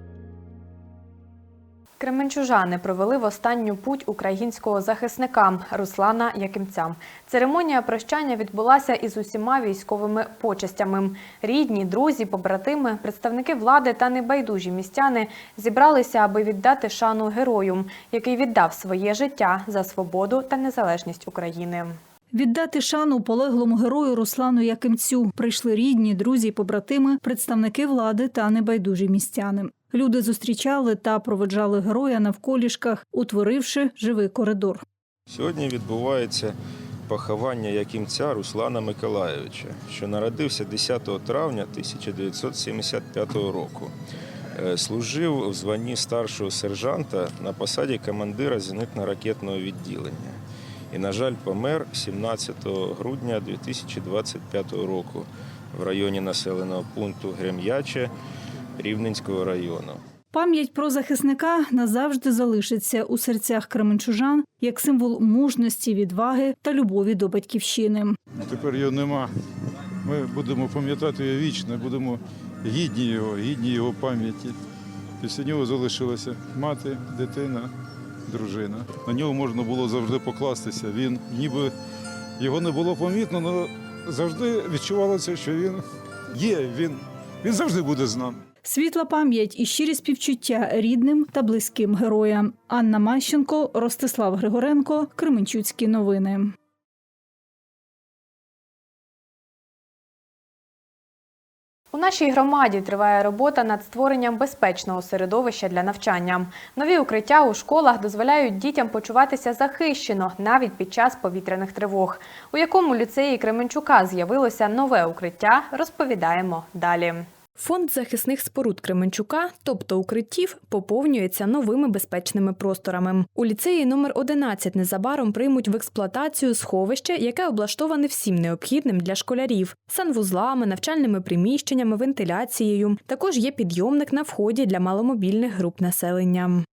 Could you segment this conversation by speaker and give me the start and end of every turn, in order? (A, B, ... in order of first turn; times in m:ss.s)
0:02.0-0:22.0 A
0:22.3-0:34.8 B
0:35.3-0:36.6 C
0:37.1-0:43.9 C
0:44.6-0:50.4 C
0:50.9-0:58.1 C
0:58.8-1:00.0 C
1:00.3-1:08.2 B
1:08.4-1:09.3 D
1:10.0-1:14.6 D
1:15.2-1:17.7 D
1:18.3-1:21.7 D
1:22.4-1:28.4 D
1:28.6-1:36.5 B
1:41.9-2:16.6 A